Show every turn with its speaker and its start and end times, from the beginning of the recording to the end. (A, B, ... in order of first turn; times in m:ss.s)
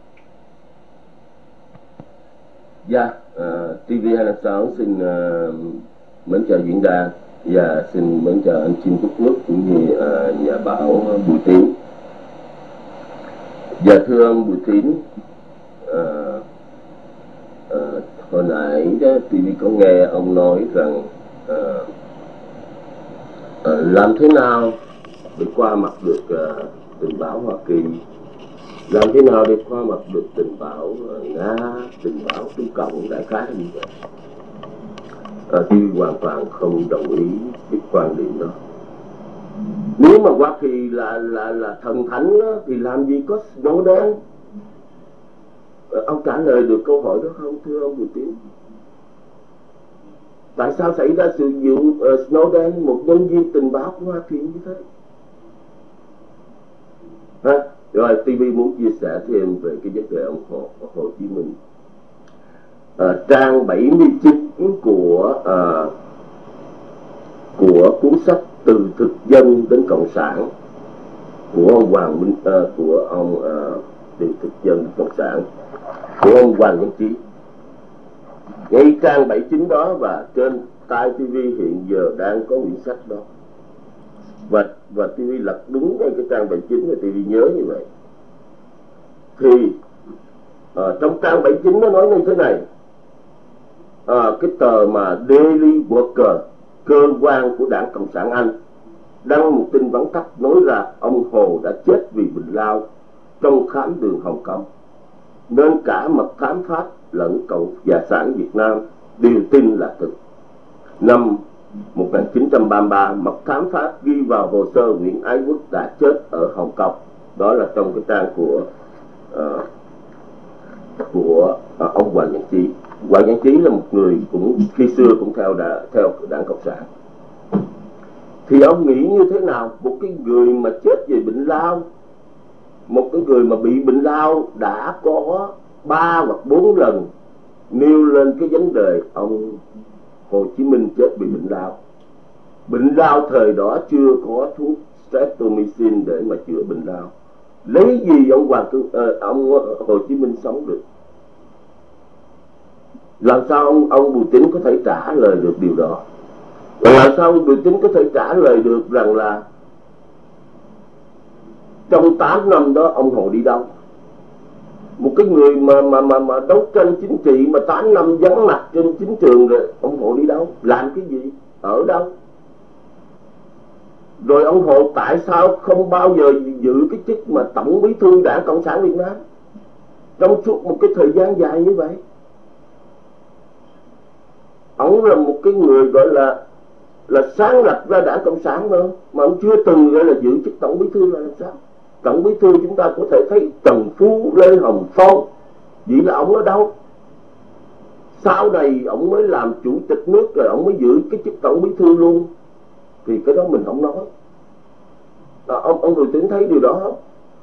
0:02.8-0:11.7 A
0:13.8-0:15.0 A
0:15.8-0:16.4 A
0:17.7-0:21.9 A
0:23.6-0:24.8 A
0:25.4-0:28.0 A
0:28.9-0:33.9 A
0:35.5-0:38.6 A
0:40.0-0:44.2 A
0:45.9-0:48.4 A
0:50.6-0:54.8 A
0:57.4-1:01.6 A
1:03.0-1:05.9 A
1:07.6-1:10.5 A
1:11.5-1:15.4 A
1:16.2-1:17.2 A
1:18.7-1:23.2 A
1:24.5-1:27.8 A
1:29.4-1:29.8 A
1:30.7-1:32.6 A
1:34.1-1:38.5 A
1:39.2-1:42.8 A
1:43.4-1:44.6 A
1:45.5-1:50.1 A
1:51.0-1:51.4 A
1:51.9-1:58.6 A
1:59.3-1:59.6 A
2:01.0-2:06.9 A
2:08.4-2:11.8 A
2:12.9-2:17.1 A
2:17.7-2:19.6 A
2:20.3-2:21.8 A
2:22.7-2:27.1 A
2:27.6-2:30.8 A
2:33.2-2:36.0 A
2:36.8-2:39.4 A
2:41.9-2:43.7 A
2:45.0-2:52.1 A
2:54.2-2:59.2 A
3:00.2-3:02.0 A
3:04.8-3:06.4 A
3:07.1-3:15.3 A
3:15.8-3:16.7 A
3:18.1-3:22.3 A
3:23.0-3:24.1 A
3:25.5-3:27.0 A